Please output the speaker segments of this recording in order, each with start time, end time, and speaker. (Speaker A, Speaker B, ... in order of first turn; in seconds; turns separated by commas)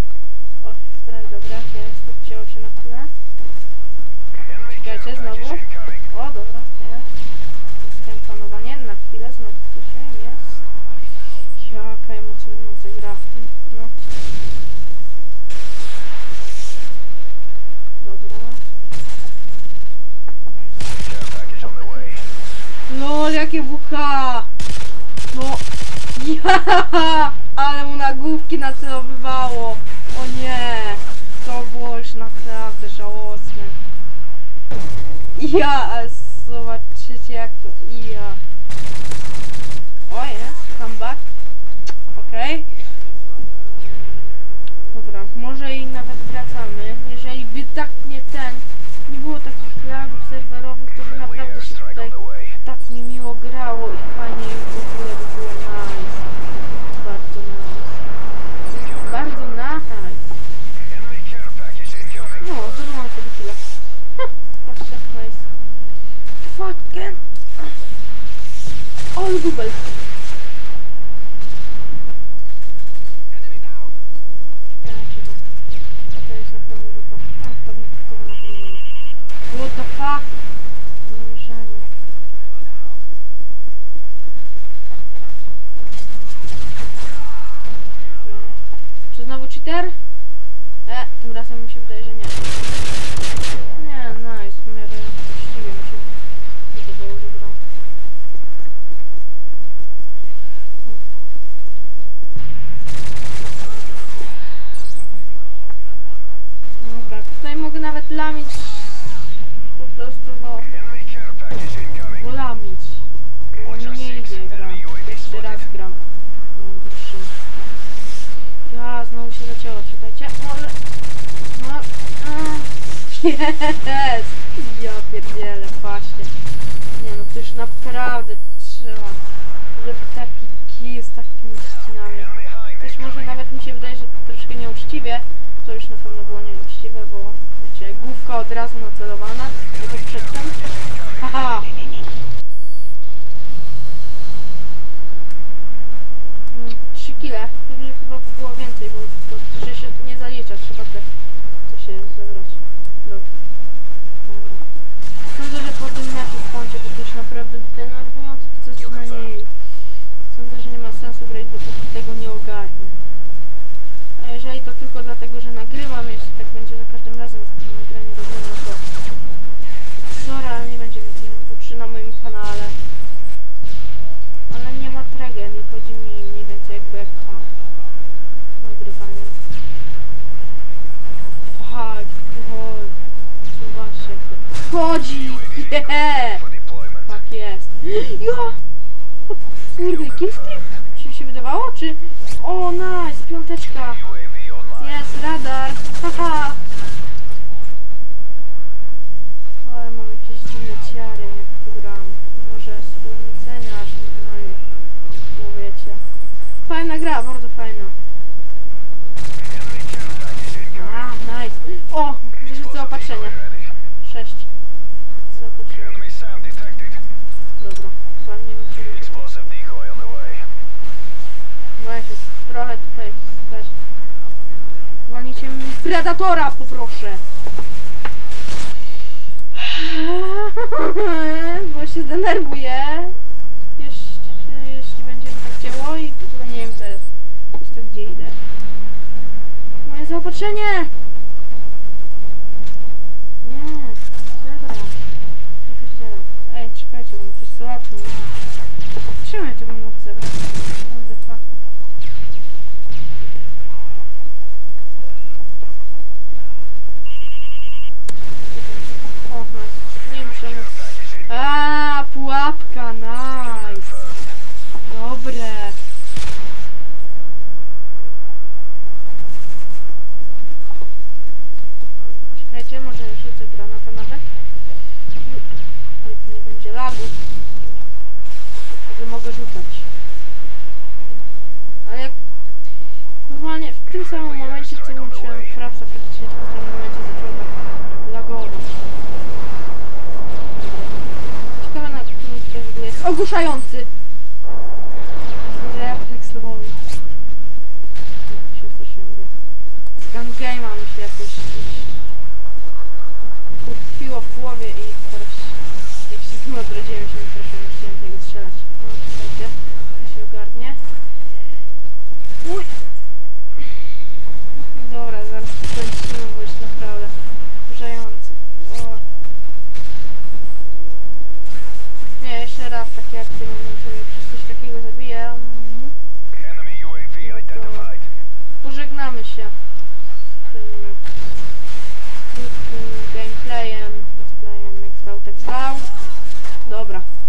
Speaker A: 0.6-3.1, Speaker B: 4.5-6.0, Speaker A: 4.7-7.1, Speaker A: 7.8-10.6, Speaker A: 11.3-13.9, Speaker A: 18.0-18.6, Speaker B: 20.9-22.3, Speaker A: 21.6-22.1, Speaker A: 22.9-24.5, Speaker A: 25.3-33.8, Speaker A: 35.4-38.4, Speaker A: 40.1-41.2, Speaker A: 42.1-42.7, Speaker A: 44.9-56.3, Speaker B: 51.1-52.6, Speaker A: 56.9-58.0, Speaker A: 58.7-60.3, Speaker B: 60.8-62.8, Speaker A: 62.4-63.7, Speaker A: 64.6-65.5, Speaker A: 66.4-67.8, Speaker A: 69.1-69.9, Speaker A: 74.8-75.4, Speaker A: 76.2-78.8, Speaker A: 79.4-80.3, Speaker A: 81.1-81.9, Speaker A: 88.2-88.6, Speaker A: 89.1-90.0, Speaker A: 90.9-92.7, Speaker A: 93.8-96.1, Speaker A: 96.7-97.6, Speaker A: 106.8-110.7, Speaker B: 110.7-112.3, Speaker A: 112.1-116.0, Speaker B: 113.6-115.7, Speaker A: 116.5-117.3, Speaker A: 118.7-120.8, Speaker A: 121.3-126.3, Speaker A: 126.9-129.2, Speaker A: 129.7-140.6, Speaker B: 132.7-133.3, Speaker A: 141.2-141.8, Speaker A: 146.5-151.1, Speaker A: 151.7-153.3, Speaker A: 154.2-154.6, Speaker A: 155.3-159.5, Speaker B: 158.8-159.3, Speaker A: 160.3-163.0, Speaker A: 164.2-168.8, Speaker A: 170.1-172.8, Speaker A: 174.5-177.5, Speaker A: 178.6-179.4, Speaker A: 181.4-182.9, Speaker A: 183.5-186.4, Speaker B: 185.2-187.1, Speaker A: 187.1-188.6, Speaker A: 189.3-194.0, Speaker B: 189.9-190.7, Speaker B: 194.0-195.0, Speaker A: 194.8-196.6, Speaker A: 199.6-204.6, Speaker A: 205.3-206.0, Speaker A: 206.7-208.0, Speaker B: 209.4-211.1, Speaker A: 210.7-213.4, Speaker B: 212.4-213.7, Speaker A: 214.0-214.5, Speaker A: 215.3-216.0, Speaker B: 215.7-217.0, Speaker A: 217.6-219.2, Speaker B: 218.8-220.5, Speaker A: 221.8-223.8, Speaker A: 225.1-227.2, Speaker A: 229.5-233.2, Speaker A: 233.8-237.1, Speaker A: 237.6-238.4, Speaker A: 239.8-240.9, Speaker A: 243.4-245.0, Speaker A: 245.7-248.4, Speaker A: 249.2-251.4, Speaker A: 258.5-260.7, Speaker B: 260.4-261.2, Speaker A: 261.3-264.0, Speaker B: 263.4-264.1, Speaker A: 264.8-265.8, Speaker A: 272.3-274.2, Speaker A: 276.0-277.2, Speaker A: 278.9-279.9, Speaker A: 281.9-282.2, Speaker A: 283.3-288.7, Speaker B: 284.0-285.6, Speaker A: 290.5-291.1, Speaker A: 291.6-293.9, Speaker A: 295.4-296.8, Speaker A: 298.3-299.3, Speaker A: 300.0-302.1, Speaker A: 303.6-310.8, Speaker A: 312.4-312.7, Speaker A: 313.6-313.9, Speaker A: 314.5-317.1, Speaker A: 317.7-319.0, Speaker A: 322.2-326.0, Speaker B: 326.4-328.1, Speaker A: 327.2-327.9, Speaker A: 328.6-329.6, Speaker A: 330.4-331.0, Speaker A: 332.3-335.9, Speaker A: 336.6-337.1